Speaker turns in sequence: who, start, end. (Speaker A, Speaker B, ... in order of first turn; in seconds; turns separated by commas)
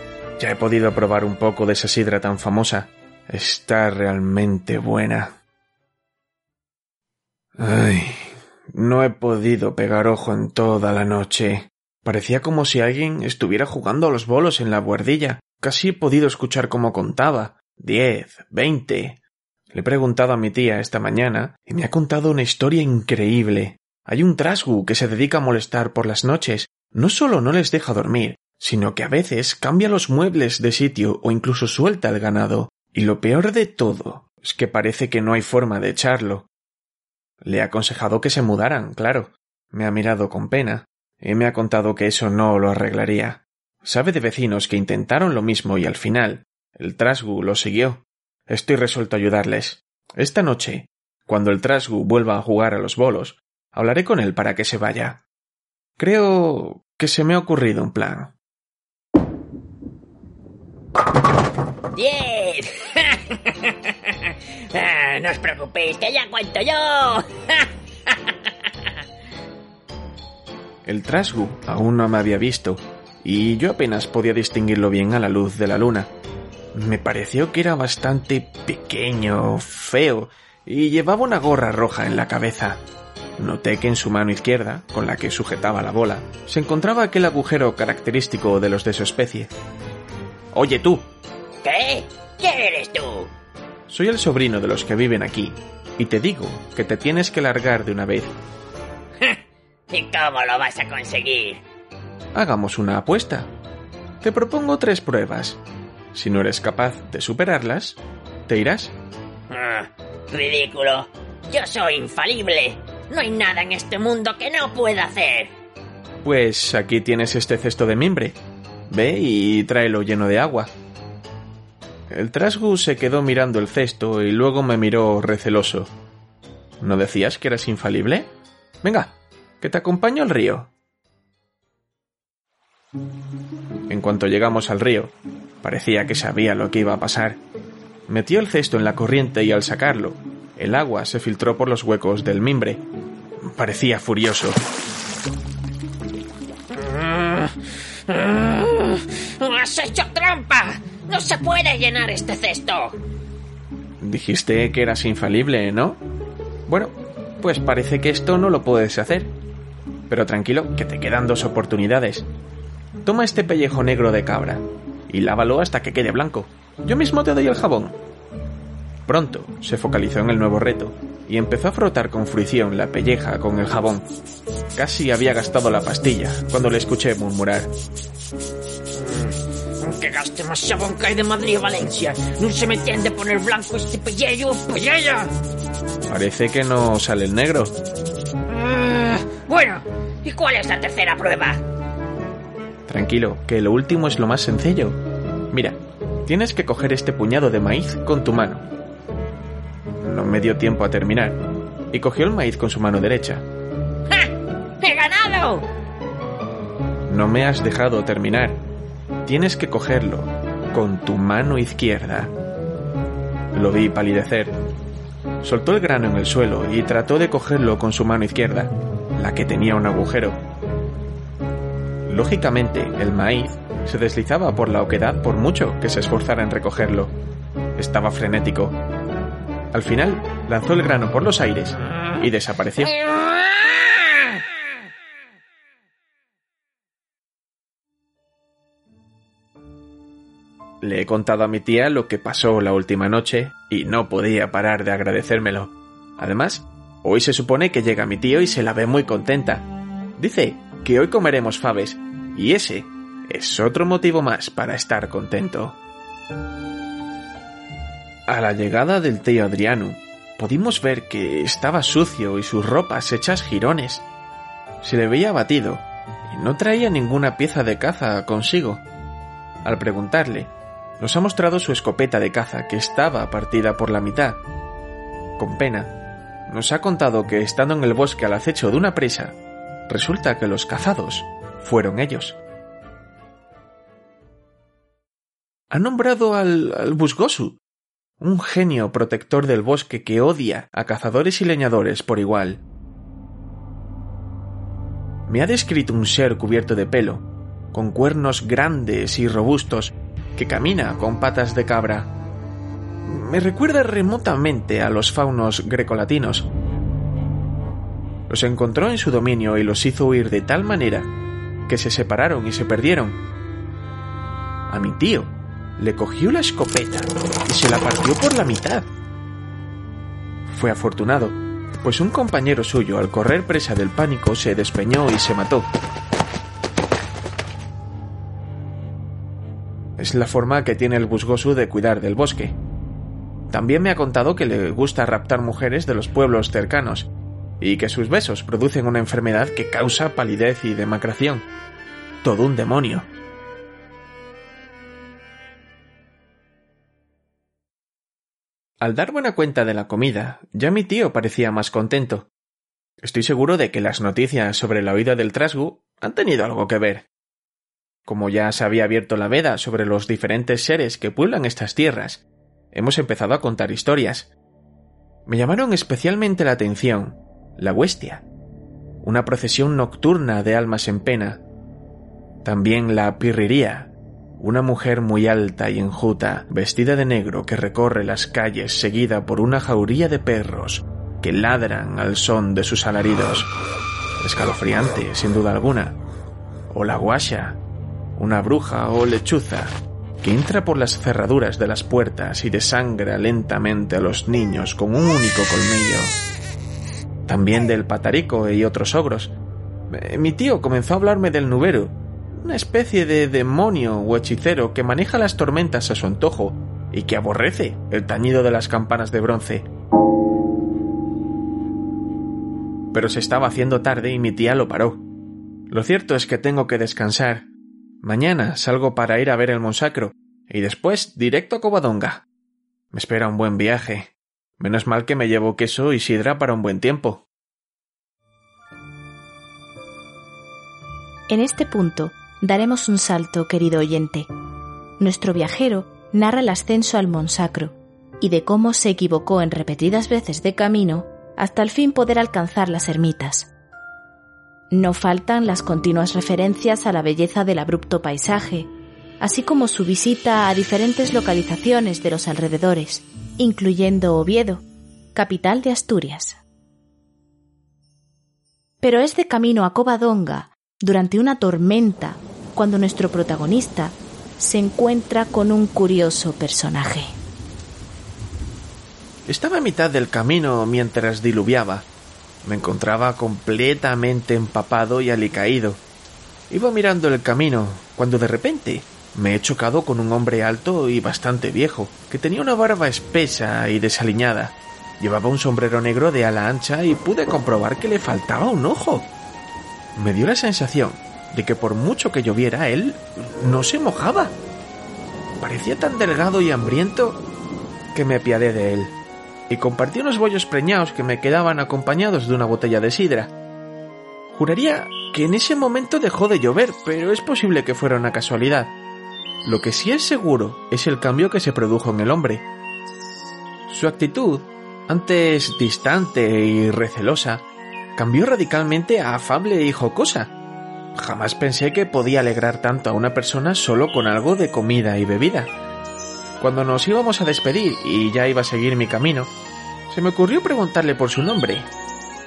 Speaker A: 0.4-5.4, Speaker A: 7.6-19.2, Speaker A: 19.7-36.5, Speaker A: 37.4-55.2, Speaker A: 56.0-58.3, Speaker B: 62.0-68.5, Speaker A: 70.8-76.1, Speaker A: 76.7-82.8, Speaker A: 83.4-89.5, Speaker A: 90.5-91.1, Speaker B: 91.6-93.3, Speaker A: 93.9-98.3, Speaker B: 99.9-101.6, Speaker A: 102.3-103.5, Speaker A: 104.2-105.6, Speaker A: 106.1-109.0, Speaker B: 109.5-115.5, Speaker A: 116.2-120.7, Speaker A: 122.1-125.9, Speaker A: 126.8-128.3, Speaker A: 128.8-130.7, Speaker A: 133.9-137.4, Speaker A: 138.1-142.8, Speaker A: 143.4-144.6, Speaker B: 146.7-147.5, Speaker B: 148.1-153.0, Speaker A: 154.0-156.0, Speaker A: 156.7-159.3, Speaker A: 160.1-162.3, Speaker A: 163.0-168.0, Speaker A: 169.1-174.1, Speaker A: 174.8-177.7, Speaker B: 178.9-185.3, Speaker A: 186.1-187.8, Speaker B: 188.5-191.6, Speaker A: 192.9-195.0, Speaker A: 195.5-198.7, Speaker A: 200.0-203.5, Speaker B: 204.1-205.7, Speaker A: 207.1-208.6, Speaker A: 209.2-212.3, Speaker A: 213.5-214.6, Speaker A: 215.4-220.4, Speaker A: 222.1-227.1, Speaker A: 227.8-228.8, Speaker A: 229.7-232.9, Speaker A: 240.8-255.8, Speaker A: 258.3-264.1, Speaker A: 264.8-268.8, Speaker A: 269.6-274.4, Speaker A: 275.4-275.9, Speaker A: 276.5-279.4, Speaker A: 279.9-282.4, Speaker A: 285.7-287.6, Speaker A: 288.2-292.6, Speaker A: 295.3-302.1, Speaker A: 303.0-306.5, Speaker A: 308.3-311.1, Speaker A: 311.7-313.2, Speaker A: 314.7-318.9, Speaker A: 320.5-325.7, Speaker A: 330.0-332.6, Speaker A: 333.5-341.5, Speaker A: 342.2-343.1, Speaker A: 348.8-352.3, Speaker A: 353.0-357.1, Speaker A: 358.1-364.3, Speaker A: 365.3-368.3, Speaker A: 369.0-371.4, Speaker A: 372.4-383.5, Speaker A: 384.2-386.0, Speaker A: 386.7-387.6, Speaker A: 388.1-396.2, Speaker A: 397.3-399.4, Speaker A: 399.9-409.7, Speaker A: 412.9-415.0, Speaker A: 415.7-417.5, Speaker A: 418.0-422.2, Speaker A: 422.9-427.2, Speaker C: 431.3-434.3, Speaker C: 435.0-443.5, Speaker C: 444.7-454.6, Speaker C: 455.1-456.4, Speaker C: 458.8-467.1, Speaker A: 469.2-471.9, Speaker A: 472.4-475.8, Speaker A: 476.5-489.1, Speaker A: 489.9-494.4, Speaker A: 495.4-497.2, Speaker A: 497.9-498.9, Speaker A: 499.5-503.3, Speaker A: 504.3-508.7, Speaker A: 509.4-512.5, Speaker A: 513.7-520.3, Speaker A: 521.0-525.5, Speaker A: 526.4-529.3, Speaker A: 529.9-531.7